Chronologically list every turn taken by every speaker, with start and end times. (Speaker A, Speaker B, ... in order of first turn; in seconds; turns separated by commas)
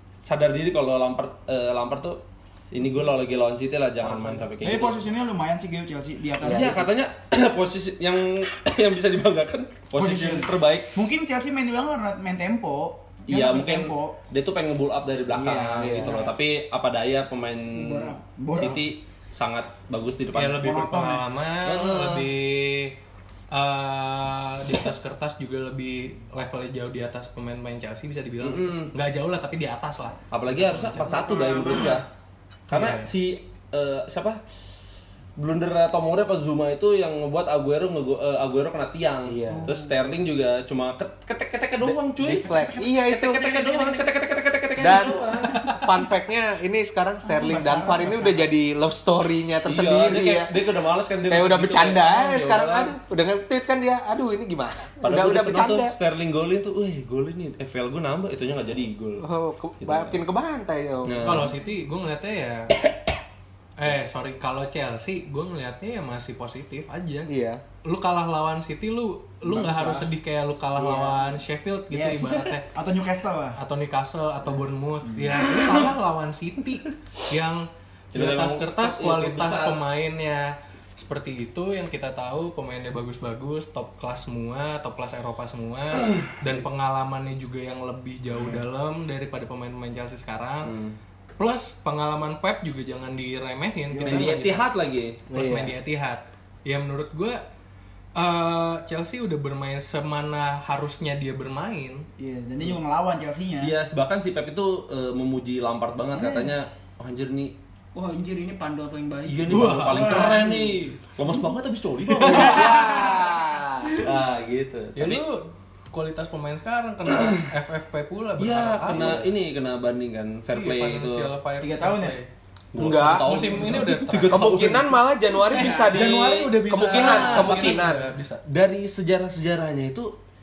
Speaker A: 0.2-5.0, Speaker B: 4.0-4.4, Speaker C: 4.6-6.9, Speaker D: 6.4-6.8, Speaker A: 6.4-10.9, Speaker C: 9.9-14.2, Speaker A: 13.3-20.8, Speaker C: 15.3-16.3, Speaker D: 15.8-16.3, Speaker E: 17.7-18.2, Speaker C: 18.4-18.8, Speaker B: 20.3-22.9, Speaker C: 20.6-21.2, Speaker A: 21.6-22.3, Speaker B: 23.5-31.2, Speaker A: 28.4-28.9, Speaker A: 30.3-32.1, Speaker E: 31.0-32.0, Speaker A: 32.7-34.4, Speaker B: 32.7-33.1, Speaker A: 35.4-45.8, Speaker D: 39.3-39.7, Speaker C: 39.5-39.9, Speaker D: 41.8-43.9, Speaker D: 44.8-50.5, Speaker C: 47.2-48.5, Speaker A: 49.6-52.9, Speaker D: 51.3-55.9, Speaker A: 55.0-59.2, Speaker D: 59.2-61.2, Speaker A: 59.8-60.2, Speaker A: 61.0-61.5, Speaker B: 61.2-62.8, Speaker B: 63.8-67.3, Speaker D: 67.3-67.6, Speaker B: 67.8-72.7, Speaker C: 69.4-70.1, Speaker D: 70.8-71.2, Speaker C: 71.9-73.6, Speaker B: 73.6-90.7, Speaker C: 75.0-75.4, Speaker A: 78.1-79.8, Speaker A: 86.0-86.3, Speaker A: 90.6-91.0, Speaker B: 91.4-94.7, Speaker C: 93.9-94.4, Speaker A: 94.0-95.2, Speaker D: 95.3-95.7, Speaker B: 95.3-97.4, Speaker B: 98.1-102.1, Speaker C: 102.2-103.8, Speaker A: 103.6-107.5, Speaker C: 106.1-106.5, Speaker E: 107.9-110.8, Speaker A: 109.2-113.1, Speaker B: 109.5-110.4, Speaker D: 112.2-113.9, Speaker A: 114.0-115.2, Speaker B: 115.0-119.2, Speaker A: 118.4-121.3, Speaker B: 120.5-122.3, Speaker C: 121.6-122.2, Speaker A: 122.7-125.0, Speaker D: 122.7-128.1, Speaker B: 123.2-125.0, Speaker B: 125.5-128.4, Speaker E: 125.5-126.0, Speaker A: 126.0-127.9, Speaker A: 128.4-130.1